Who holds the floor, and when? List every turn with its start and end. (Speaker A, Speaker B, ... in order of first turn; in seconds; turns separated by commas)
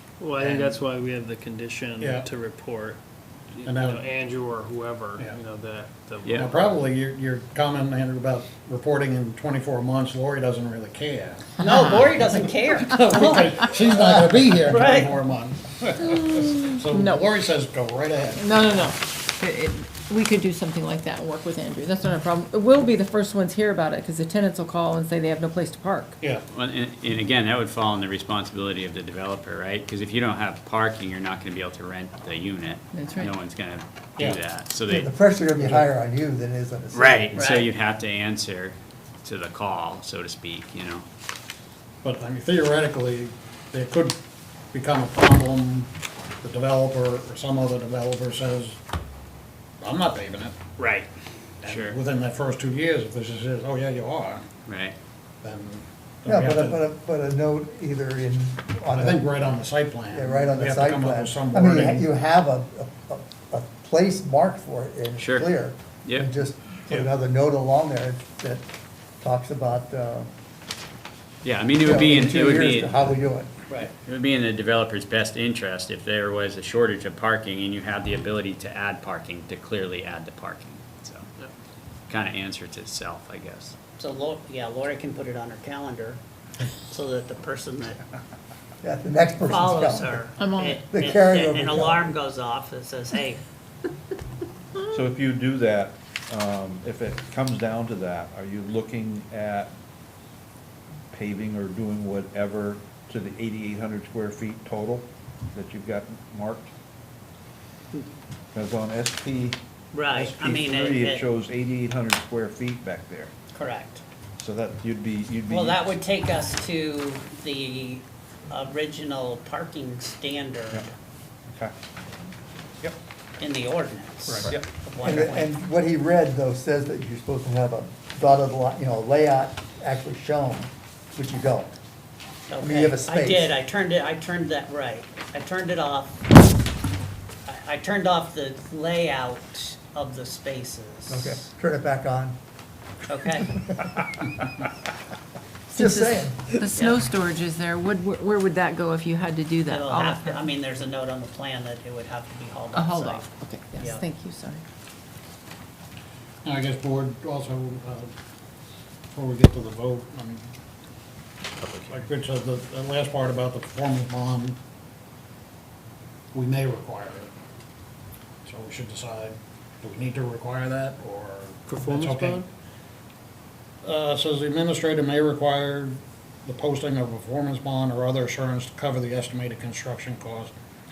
Speaker A: 0.2-3.0, Speaker B: 0.4-0.8, Speaker B: 2.0-2.3, Speaker A: 3.6-6.8, Speaker B: 3.6-4.0, Speaker B: 5.2-5.4, Speaker C: 6.2-6.5, Speaker B: 6.3-11.7, Speaker D: 11.6-14.1, Speaker B: 12.8-18.7, Speaker D: 14.6-15.1, Speaker E: 16.8-17.3, Speaker E: 18.4-26.2, Speaker C: 26.5-35.1, Speaker E: 32.9-33.3, Speaker F: 34.9-37.5, Speaker B: 35.6-35.9, Speaker C: 36.9-41.0, Speaker D: 37.4-37.7, Speaker B: 42.0-44.2, Speaker B: 44.7-45.9, Speaker B: 46.4-48.8, Speaker B: 49.8-50.6, Speaker C: 50.8-51.1, Speaker B: 51.6-54.5, Speaker C: 51.6-52.0, Speaker C: 54.7-55.0, Speaker B: 55.4-56.8, Speaker F: 56.3-68.7, Speaker B: 58.9-62.1, Speaker C: 65.2-65.5, Speaker C: 66.0-66.3, Speaker F: 69.2-70.3, Speaker C: 71.4-73.2, Speaker F: 71.8-73.5, Speaker C: 74.0-81.3, Speaker C: 82.1-83.8, Speaker D: 84.0-86.2, Speaker D: 86.9-88.0, Speaker F: 88.8-90.2, Speaker D: 89.5-93.4, Speaker E: 90.4-90.8, Speaker F: 90.9-92.1, Speaker G: 94.9-99.7, Speaker G: 101.1-106.7, Speaker G: 108.5-109.6, Speaker D: 109.9-111.2, Speaker G: 110.1-113.3, Speaker D: 113.5-114.0, Speaker G: 114.4-115.9, Speaker D: 115.5-120.9, Speaker D: 123.4-125.5, Speaker B: 124.3-124.5, Speaker F: 125.0-131.8, Speaker D: 132.5-136.2, Speaker F: 132.6-133.5, Speaker D: 137.5-141.3, Speaker F: 141.1-142.4, Speaker D: 143.1-143.8, Speaker F: 145.7-146.7, Speaker E: 145.7-150.4, Speaker D: 146.8-147.0, Speaker D: 149.7-154.1, Speaker E: 152.7-154.6, Speaker B: 156.4-158.1, Speaker B: 159.1-160.5, Speaker B: 161.8-164.6, Speaker B: 166.3-167.3, Speaker B: 168.4-172.4, Speaker A: 171.7-172.5, Speaker B: 173.8-180.5